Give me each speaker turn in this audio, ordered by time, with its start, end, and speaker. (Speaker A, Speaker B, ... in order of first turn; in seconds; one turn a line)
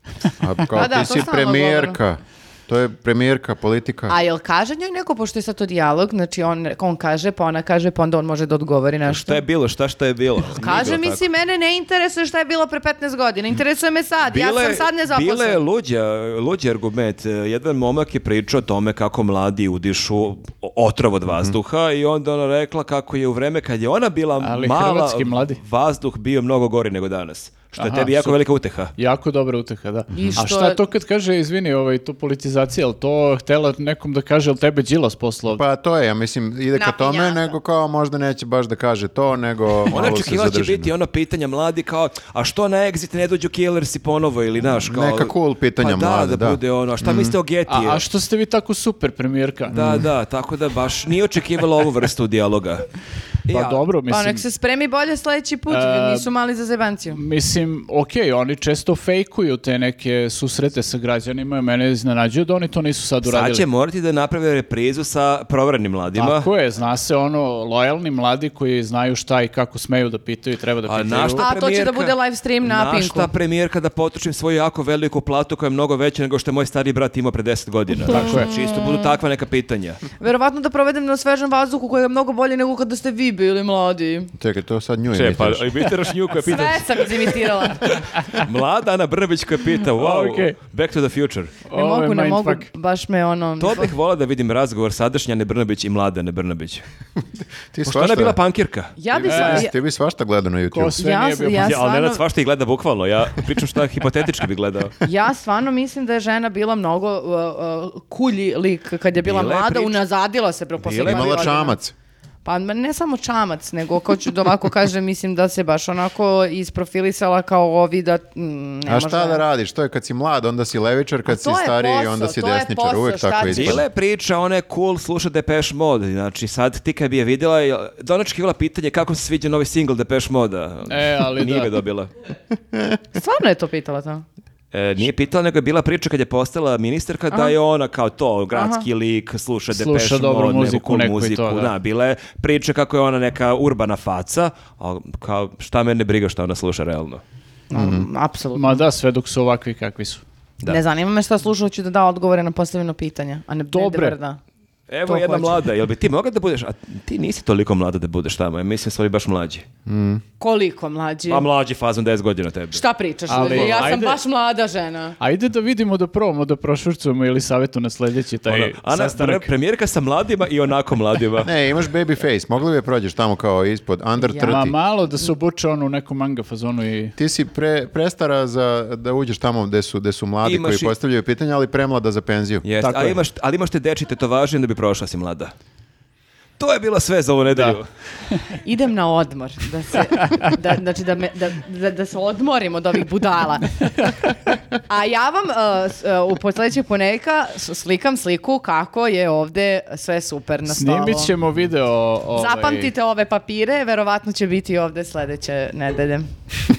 Speaker A: 0.4-4.2
Speaker B: 0.8-2.0
Speaker B: 4.1-9.4
Speaker C: 9.1-11.2
Speaker B: 10.5-15.6
Speaker C: 14.2-28.9
Speaker D: 24.4-25.6
Speaker D: 27.8-28.4
Speaker D: 29.0-35.6
Speaker A: 30.1-30.4
Speaker B: 30.1-30.8
Speaker A: 35.5-40.9
Speaker B: 36.7-37.6
Speaker C: 39.9-48.0
Speaker A: 44.8-47.4
Speaker D: 47.7-49.7
Speaker A: 49.7-50.1
Speaker C: 49.7-52.9
Speaker C: 53.5-53.8
Speaker D: 53.5-54.4
Speaker B: 54.1-57.2
Speaker D: 55.7-56.3
Speaker D: 57.1-63.6
Speaker C: 63.3-66.5
Speaker D: 66.2-71.5
Speaker C: 70.9-80.0
Speaker B: 71.4-73.3
Speaker B: 78.1-79.2
Speaker D: 78.1-78.5
Speaker B: 80.2-84.3
Speaker A: 84.4-85.9
Speaker C: 85.1-91.6
Speaker B: 86.3-88.0
Speaker D: 88.1-88.4
Speaker D: 89.9-90.6
Speaker D: 91.7-92.7
Speaker B: 91.7-93.9
Speaker C: 93.6-96.8
Speaker A: 97.7-98.4
Speaker C: 97.9-99.0
Speaker B: 99.0-99.7
Speaker A: 99.1-101.0
Speaker D: 99.3-99.7
Speaker D: 100.7-101.8
Speaker B: 101.0-102.2
Speaker C: 101.5-105.0
Speaker B: 105.0-111.8
Speaker C: 109.2-110.0
Speaker C: 110.8-111.6
Speaker A: 111.0-111.9
Speaker B: 112.5-119.4
Speaker A: 118.9-123.8
Speaker B: 121.3-123.8
Speaker C: 123.4-132.1
Speaker D: 130.9-131.7
Speaker B: 133.2-134.2
Speaker C: 134.7-147.2
Speaker B: 137.3-137.6
Speaker B: 138.6-138.8
Speaker D: 139.7-141.7
Speaker B: 147.7-148.8
Speaker A: 147.7-148.1
Speaker D: 148.5-150.2
Speaker B: 150.7-154.4
Speaker D: 153.7-154.2
Speaker C: 154.9-159.7
Speaker B: 155.1-155.6
Speaker A: 159.9-160.2
Speaker B: 160.4-161.4
Speaker C: 161.3-164.0
Speaker B: 162.7-165.2
Speaker D: 163.3-164.2
Speaker D: 165.2-169.5
Speaker C: 168.5-171.5
Speaker A: 171.4-174.8
Speaker B: 174.2-174.6
Speaker D: 174.4-177.2
Speaker A: 177.2-182.7
Speaker C: 180.4-180.9
Speaker C: 182.6-185.5
Speaker D: 182.8-183.2
Speaker C: 186.6-187.9
Speaker D: 187.5-187.8
Speaker B: 188.7-194.1
Speaker B: 194.9-201.3
Speaker D: 200.7-202.9
Speaker B: 202.4-206.3